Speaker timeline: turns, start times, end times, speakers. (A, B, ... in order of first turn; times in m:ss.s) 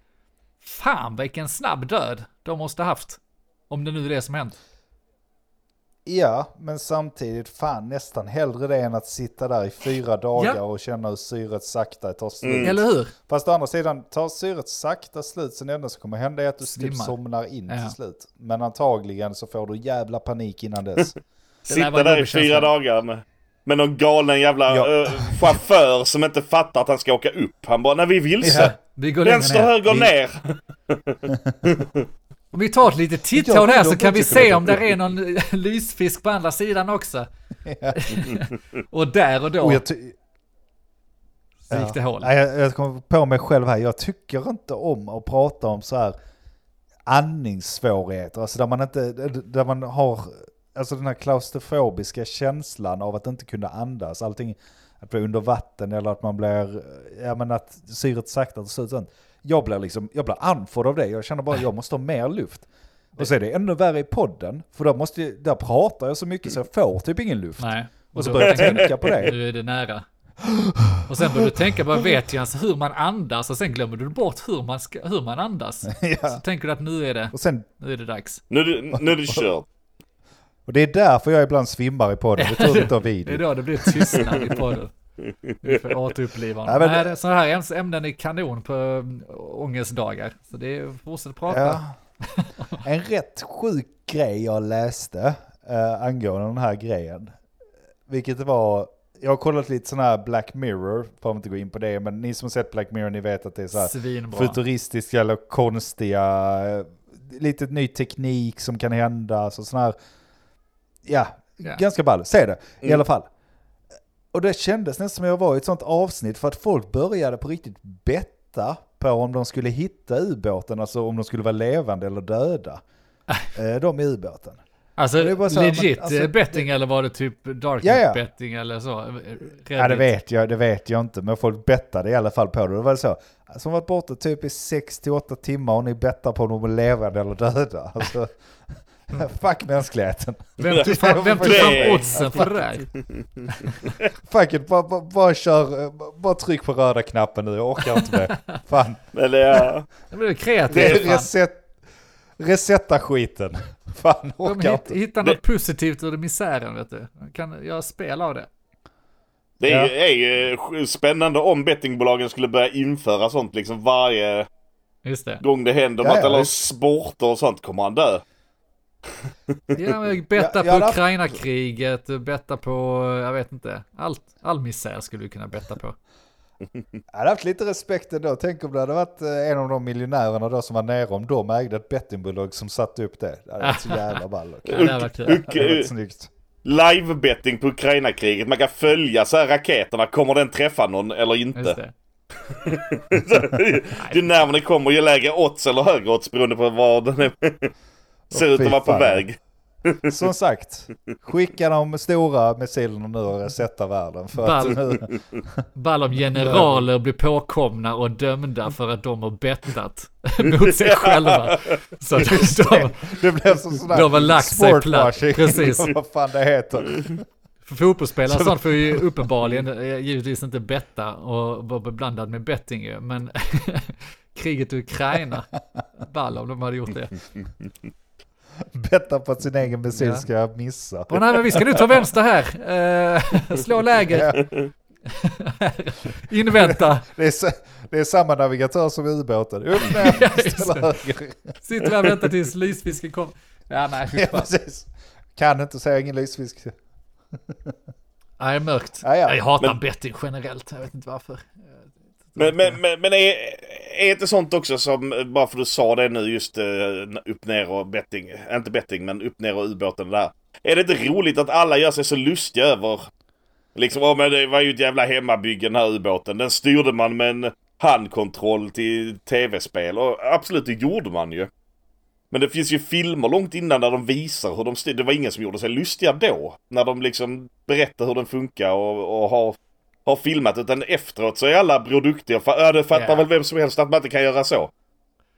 0:00.6-0:04.6 A
0:06.1-0:21.2 B
0:12.4-0:12.7 C
0:12.6-0:13.2 A
0:16.6-0:17.2 A
0:17.7-0:17.9 A
0:21.6-0:22.7 A
0:21.7-0:32.0 C
0:24.7-0:25.6 B
0:28.4-0:28.8 B
0:28.6-0:29.7 A
0:31.3-0:31.6 B
0:32.5-0:37.3 A
0:33.4-0:34.9 B
0:37.6-0:38.4 B
0:37.9-0:39.8 A
0:39.6-0:40.2 B
0:41.7-0:42.3 A
0:41.7-0:46.2 B
0:47.1-1:09.4 B
1:07.6-1:10.1 A
1:08.4-1:09.3 C
1:10.4-1:12.1 B
1:11.1-1:18.4 A
1:15.9-1:16.4 B
1:17.3-1:17.7 B
1:18.5-1:19.7 C
1:18.9-1:19.4 B
1:20.7-1:24.5 B
1:22.4-1:24.9 A
1:25.2-1:25.8 C
1:25.6-1:32.8 A
1:26.7-1:27.2 B
1:31.5-1:32.0 B
1:32.8-1:37.4 B
1:38.1-1:50.0 B
1:43.7-1:44.6 A
1:51.0-1:53.3 B
1:54.3-2:02.8 B
2:03.6-2:04.6 B
2:05.0-2:10.1 A
2:05.2-2:06.6 B
2:07.8-2:08.2 B
2:09.8-2:22.5 B
2:20.6-2:22.9 A
2:21.4-2:22.3 C
2:24.2-2:29.7 B
2:29.1-2:29.9 C
2:30.1-2:31.3 A
2:30.7-2:31.0 C
2:30.7-2:31.7 B
2:32.4-2:35.0 B
2:34.4-2:38.5 A
2:39.6-2:44.5 C
2:39.6-2:39.9 B
2:45.0-2:45.4 A
2:45.4-2:48.2 C
2:46.0-2:46.7 B
2:49.7-2:56.0 A
2:50.4-2:51.0 B
2:57.1-3:06.3 B
3:03.6-3:05.5 A
3:04.7-3:05.9 C
3:06.6-3:11.8 C
3:11.6-3:11.9 A
3:12.5-3:17.7 C
3:18.3-3:19.3 B
3:18.3-3:20.2 C
3:20.1-3:25.6 B
3:24.4-3:24.8 A
3:25.8-3:33.2 A
3:26.4-3:26.8 B
3:30.6-3:31.8 C
3:32.2-3:37.2 B
3:33.9-3:35.9 A
3:37.6-3:47.2 A
3:38.3-3:39.0 B
3:48.6-3:51.6 B
3:50.0-3:50.2 A
3:51.1-3:54.4 A
3:54.1-3:54.4 B
3:54.4-3:54.7 C
3:55.1-3:57.1 A
3:56.6-4:01.6 B
3:59.8-4:01.0 A
4:01.6-4:04.5 A
4:04.1-4:06.8 B
4:07.4-4:07.7 B
4:08.4-4:11.7 A
4:09.0-4:09.4 B
4:12.3-4:12.8 A
4:12.4-4:23.1 C
4:23.8-4:31.5 C
4:32.3-4:44.7 C
4:42.9-4:43.2 A